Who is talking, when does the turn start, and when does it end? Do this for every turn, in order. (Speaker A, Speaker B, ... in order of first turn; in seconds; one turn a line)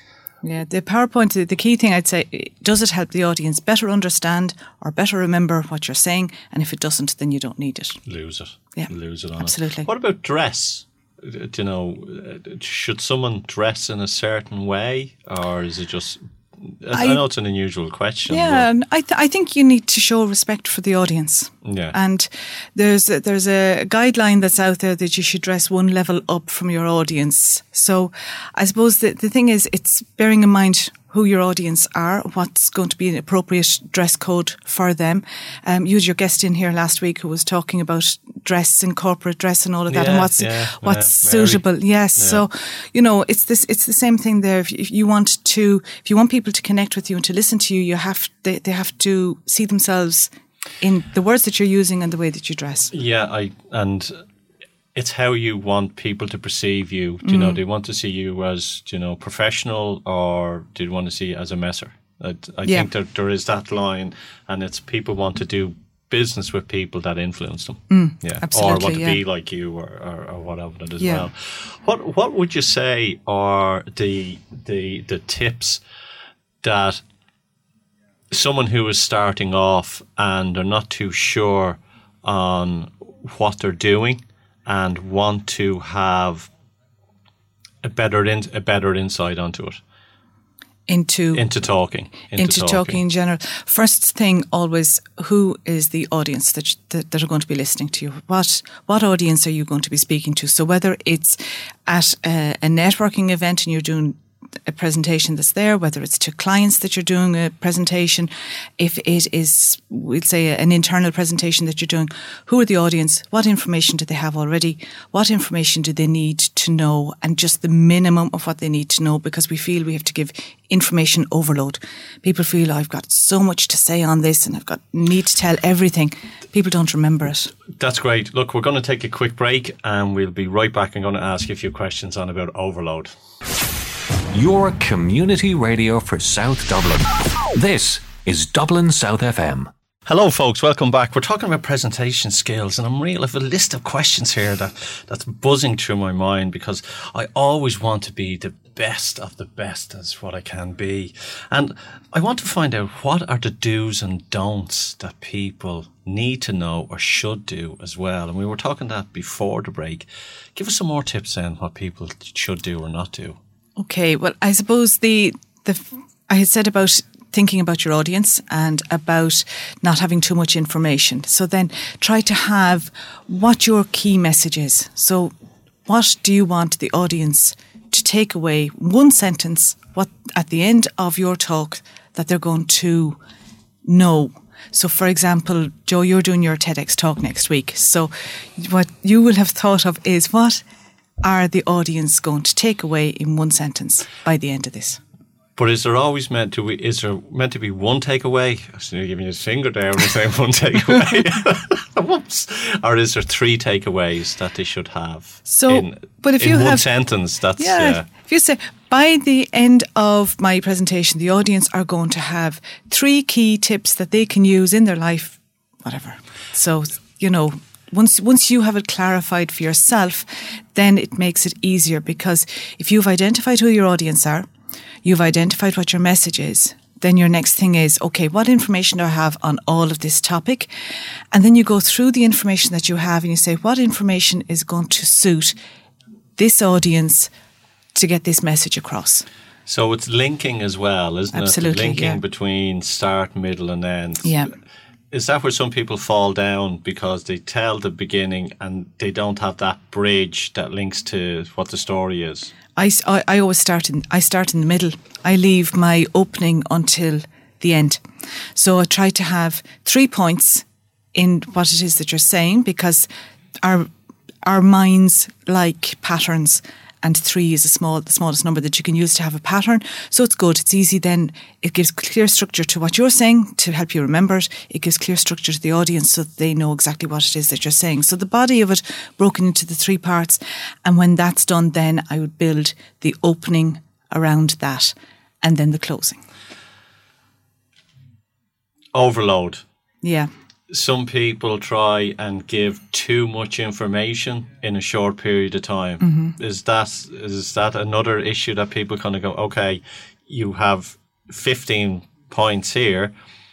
Speaker A: 0.4-8.0
Speaker B: 8.1-18.7
Speaker A: 8.8-9.9
Speaker A: 16.9-17.2
Speaker A: 18.3-50.3
Speaker B: 21.6-21.9
Speaker B: 39.9-41.6
Speaker A: 50.8-52.9
Speaker B: 52.9-54.2
Speaker B: 55.0-75.8
Speaker A: 57.2-57.6
Speaker A: 67.9-69.2
Speaker A: 71.0-71.3
Speaker B: 76.6-77.0
Speaker B: 78.3-86.5
Speaker B: 87.8-89.8
Speaker A: 90.9-91.5
Speaker B: 91.3-93.0
Speaker A: 92.4-127.5
Speaker B: 127.8-133.1
Speaker C: 134.3-139.7
Speaker B: 140.1-163.4
Speaker A: 163.8-175.3
Speaker A: 175.9-183.2
Speaker A: 183.8-190.6
Speaker A: 191.2-195.0
Speaker B: 195.6-208.1
Speaker A: 205.5-206.9
Speaker A: 207.6-224.5
Speaker A: 225.0-230.7
Speaker A: 231.3-235.5
Speaker A: 236.4-237.3
Speaker A: 237.9-239.2
Speaker B: 239.7-244.5
Speaker A: 241.3-242.2
Speaker A: 244.2-244.5
Speaker B: 245.1-252.5
Speaker A: 252.8-258.0
Speaker A: 258.5-263.1
Speaker A: 263.6-263.9
Speaker A: 264.4-286.2
Speaker B: 288.9-289.6
Speaker A: 290.0-290.3
Speaker B: 290.7-303.1
Speaker A: 296.0-296.4